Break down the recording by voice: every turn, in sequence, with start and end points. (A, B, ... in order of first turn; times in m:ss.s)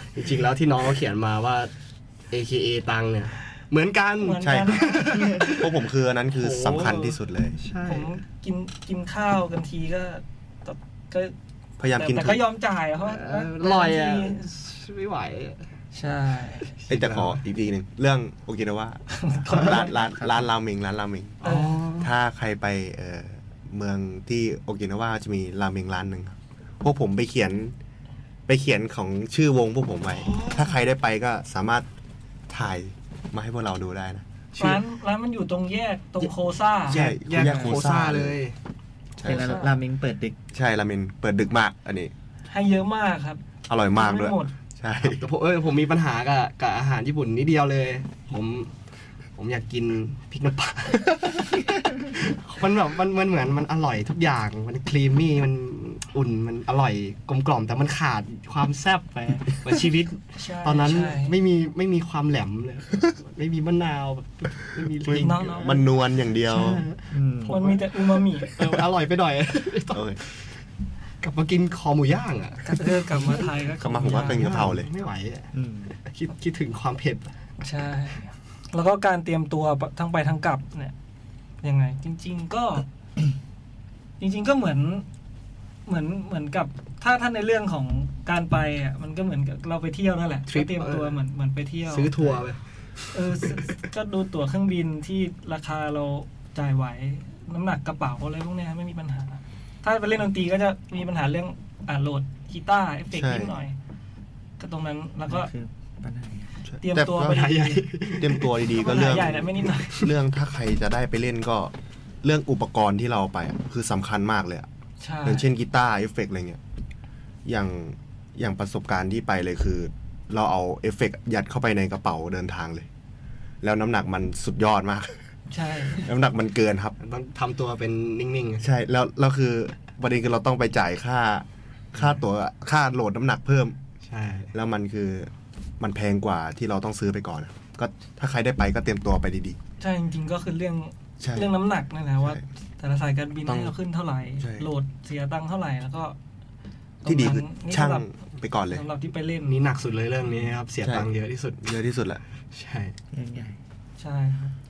0:00.1-0:01.7 A
0:02.3-0:08.1 A
0:04.2-0:05.5 B
0:04.4-0:07.6 C
0:07.8-0:11.3 B
0:11.8-0:12.4 C
0:11.9-0:14.5 B
0:13.0-0:15.6 A
0:15.9-0:16.7 B
0:16.7-0:17.4 A
0:16.9-0:21.4 C
0:19.1-0:19.9 B
0:20.0-0:20.5 D
0:21.4-0:22.1 A
0:21.4-0:21.7 B
0:22.0-0:27.7 C
0:28.5-0:31.9 C
0:30.1-0:30.8 A
0:32.5-0:34.2 C
0:34.6-0:34.8 A
0:34.6-0:37.0 B
0:36.9-0:38.4 C
0:36.9-0:38.6 A
0:37.4-0:38.1 D
0:39.2-0:39.6 C
0:39.2-0:40.4 D
0:39.3-0:39.7 B
0:40.5-0:42.1 C
0:42.5-0:43.4 B
0:43.7-0:45.2 C
0:43.9-0:44.5 B
0:45.0-0:48.7 A
0:49.4-1:05.9 A
1:00.3-1:01.4 B
1:05.1-1:06.8 C
1:05.1-1:05.8 B
1:06.4-1:10.3 A
1:06.5-1:07.5 D
1:07.5-1:08.8 B
1:09.9-1:10.2 C
1:11.2-1:13.4 A
1:12.6-1:14.6 B
1:13.8-1:14.9 C
1:14.2-1:17.3 A
1:15.5-1:15.9 D
1:17.6-1:20.9 B
1:21.6-1:22.9 B
1:24.2-1:25.1 B
1:25.9-1:32.1 B
1:30.5-1:31.2 A
1:31.9-1:33.7 A
1:33.1-1:43.7 B
1:43.1-1:43.6 C
1:44.6-1:45.5 B
1:45.3-1:46.5 D
1:46.7-1:47.4 C
1:46.8-1:47.9 B
1:47.2-1:48.6 A
1:48.2-1:54.7 C
1:48.7-1:50.0 B
1:55.0-1:55.4 B
1:55.2-1:56.6 C
1:57.4-2:02.9 C
2:03.6-2:05.2 C
2:05.5-2:06.1 B
2:06.0-2:07.0 C
2:07.0-2:08.6 A
2:08.6-2:13.7 C
2:12.0-2:12.2 A
2:14.0-2:14.5 A
2:14.5-2:19.6 C
2:19.8-2:26.2 B
2:21.2-2:21.5 C
2:23.4-2:23.7 C
2:24.4-2:24.7 C
2:27.0-2:28.1 B
2:27.0-2:28.8 C
2:28.7-2:29.5 B
2:29.4-2:31.7 A
2:30.8-2:31.1 C
2:31.6-2:32.2 C
2:32.5-2:32.9 A
2:33.1-2:33.6 D
2:34.0-2:34.5 B